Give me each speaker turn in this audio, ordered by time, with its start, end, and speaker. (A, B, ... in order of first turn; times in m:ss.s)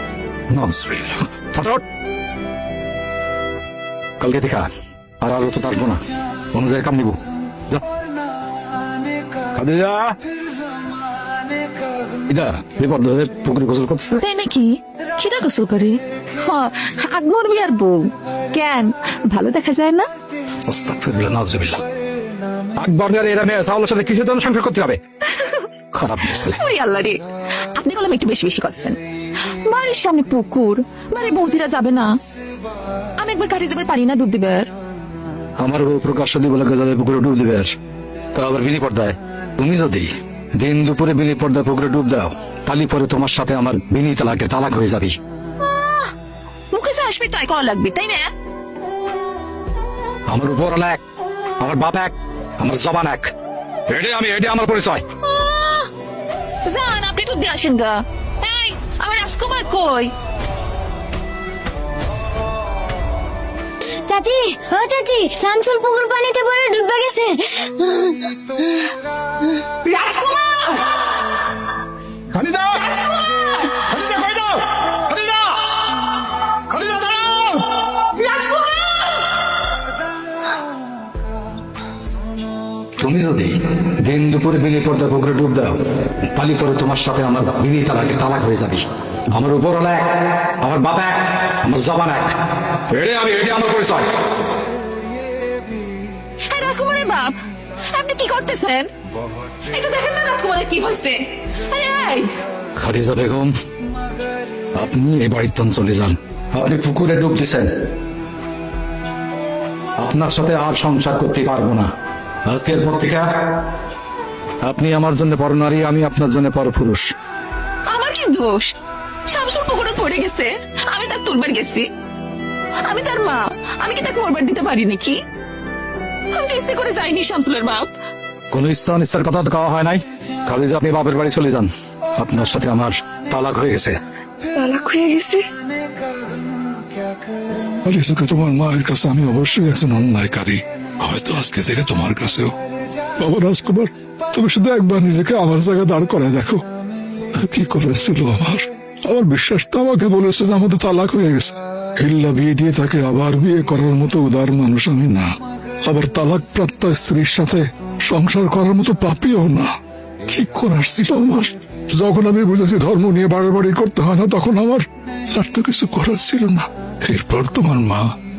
0:00.5-0:01.8 A
0:04.2-0:04.6 A
0:05.2-0:06.0 A
0:06.5-0:07.8 A
0:09.5-0:10.2 A
0:12.3-0:14.2 A
0:14.2-0:20.1 B
0:20.6-0:21.8 A
0:22.8-0:25.0 A
0:25.3-0:25.6 B
0:25.9-0:26.6 A
0:26.4-0:27.2 B
0:27.7-0:29.0 B
0:29.6-0:32.2 B
0:33.2-0:34.7 B
0:35.6-0:37.7 A
0:38.3-0:45.1 A
0:46.7-0:48.3 B
0:50.3-0:51.0 A
0:51.6-0:53.3 A
0:53.9-0:55.0 A
0:55.3-0:55.9 B
0:56.6-1:00.1 B
1:04.0-1:08.9 C
1:09.8-1:11.0 B
1:12.3-1:12.8 A
1:12.8-1:13.8 B
1:13.9-1:15.8 A
1:16.7-1:17.7 A
1:18.1-1:19.3 B
1:23.0-1:34.1 A
1:36.5-1:37.3 B
1:37.9-1:38.9 B
1:39.7-1:42.3 B
1:42.8-1:43.5 A
1:44.7-1:47.7 A
1:50.0-1:51.9 A
1:52.4-1:53.3 A
1:54.6-1:57.1 A
1:57.9-1:58.7 B
1:59.3-2:01.9 B
2:02.8-2:05.2 B
2:06.3-2:07.9 B
2:08.5-2:14.0 A
2:14.6-2:15.5 B
2:17.9-2:22.5 D
2:23.2-2:26.6 D
2:27.3-2:35.2 D
2:35.9-2:39.7 D
2:40.3-2:48.0 D